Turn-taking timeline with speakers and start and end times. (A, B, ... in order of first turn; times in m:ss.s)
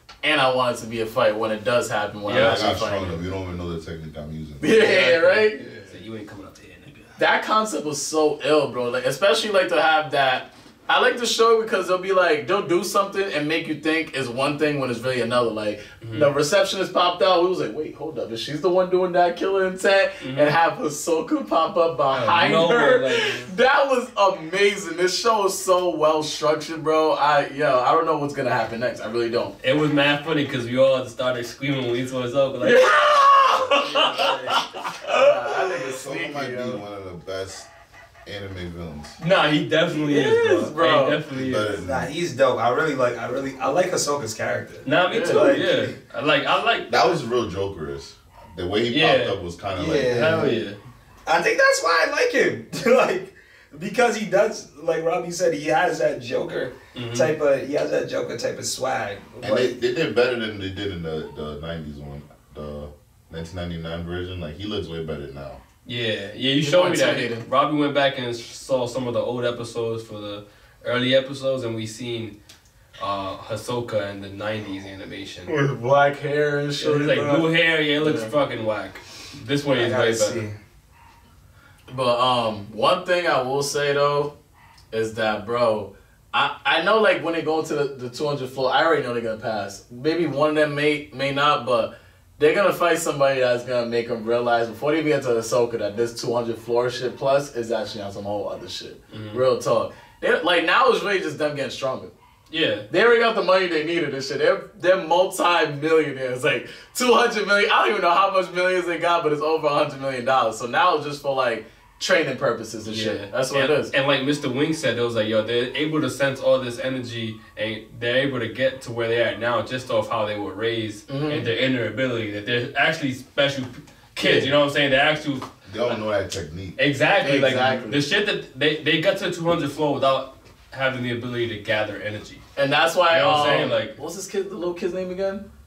0:00.2-0:03.2 A
0:02.2-0:02.6 B
0:02.3-0:05.0 C
0:04.6-0:05.6 A
0:04.8-0:07.1 B
0:07.2-0:29.5 A
0:16.0-0:16.3 B
0:20.2-0:20.5 B
0:22.1-0:23.5 B
0:29.6-0:33.0 B
0:32.6-0:34.1 A
0:33.6-0:34.7 D
0:33.8-0:34.6 B
0:35.0-0:36.8 A
0:35.6-0:37.7 C
0:38.2-0:39.2 C
0:39.2-0:41.8 B
0:39.9-0:41.2 A
0:41.3-0:42.1 C
0:41.8-0:46.0 D
0:44.8-0:47.2 B
0:45.1-0:45.5 A
0:46.9-0:50.3 C
0:48.9-0:49.4 B
0:49.7-0:50.6 D
0:50.1-0:50.8 B
0:51.2-0:59.8 D
0:56.9-0:57.3 B
0:59.4-1:05.6 C
1:05.8-1:12.4 B
1:06.6-1:07.5 A
1:13.0-1:15.5 B
1:15.5-1:18.3 A
1:16.8-1:20.4 B
1:19.7-1:20.6 D
1:21.9-1:24.3 A
1:24.9-1:42.1 A
1:39.1-1:39.4 B
1:42.5-1:42.9 B
1:42.9-1:53.9 A
1:52.8-2:05.5 B
2:01.1-2:01.5 A
2:04.2-2:04.5 A
2:05.6-2:06.8 C
2:06.8-2:12.4 B
2:07.2-2:08.0 A
2:12.6-2:15.4 A
2:13.1-2:14.0 B